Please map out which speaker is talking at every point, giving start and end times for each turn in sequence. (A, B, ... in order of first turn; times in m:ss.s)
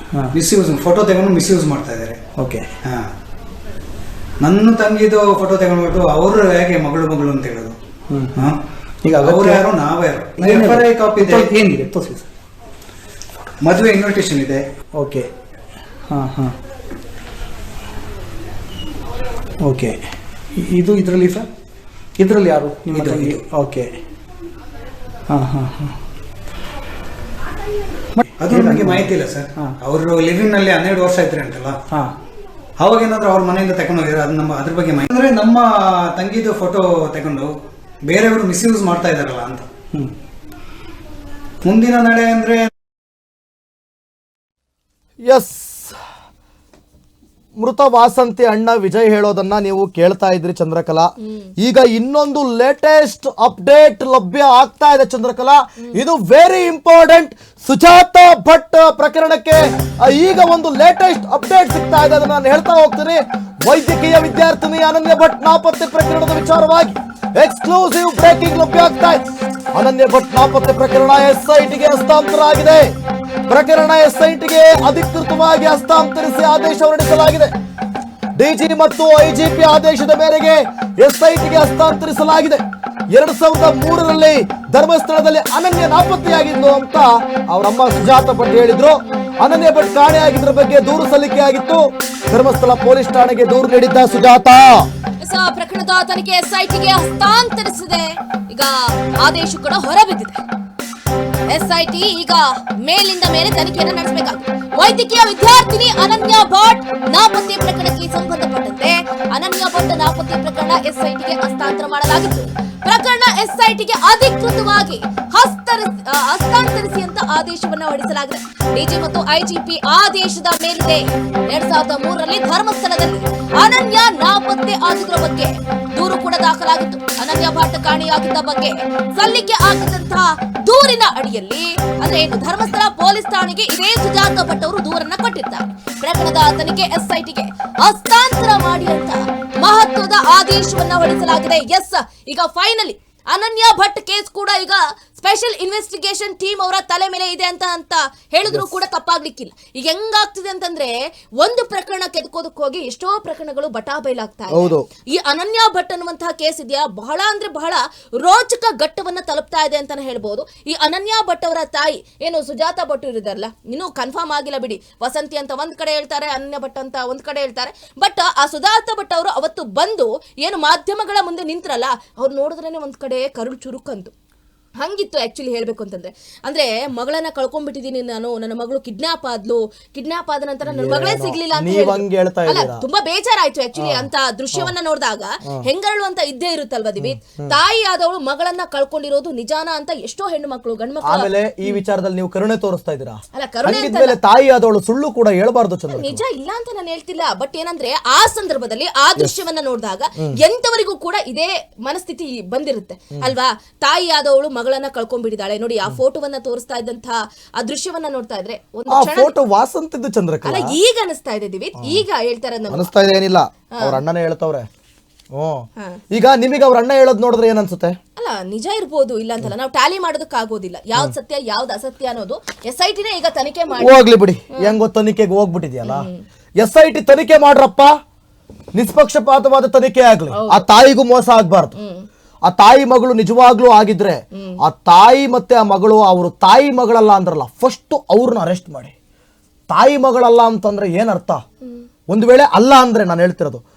0:00.3-0:02.2 A
0:02.4-0:02.7 B
0:04.4-0:07.8 A
0:08.1-0:08.5 B
0:09.0-0:09.6 B
0:09.1-0:11.5 A
0:10.4-0:12.3 B
0:13.6-0:14.6 A
0:15.0-0:15.3 B
0:16.1-0:16.5 B
0:19.6-0:20.0 B
0:20.6-0:21.5 B
0:22.2-0:23.9 B
0:22.9-0:23.4 A
0:25.3-0:26.0 B
0:28.2-0:29.8 B
0:28.4-0:31.8 A
0:32.8-0:37.5 A
0:38.1-0:39.7 A
0:41.6-0:42.7 A
0:45.3-0:46.0 C
0:47.6-1:09.2 C
0:51.2-0:51.5 D
1:09.7-1:12.9 C
1:13.5-1:17.5 C
1:18.4-1:34.9 C
1:35.2-1:40.4 D
1:41.5-2:54.1 D
2:34.5-2:34.8 C
2:54.8-3:11.8 D
3:00.7-3:02.8 C
3:03.8-3:04.7 C
3:07.0-3:07.6 C
3:11.0-3:16.2 C
3:13.3-3:14.2 D
3:15.9-3:29.3 D
3:28.9-3:30.7 C
3:30.4-3:32.9 D
3:32.7-3:34.7 C
3:35.4-3:38.0 C
3:38.2-3:44.0 D
3:43.8-3:46.1 C
3:45.8-3:46.2 D
3:46.6-3:47.9 C
3:48.7-3:51.8 C
3:50.3-3:50.6 D
3:51.8-3:52.1 D
3:52.4-3:58.9 C
3:59.7-4:01.4 C
4:02.1-4:03.6 C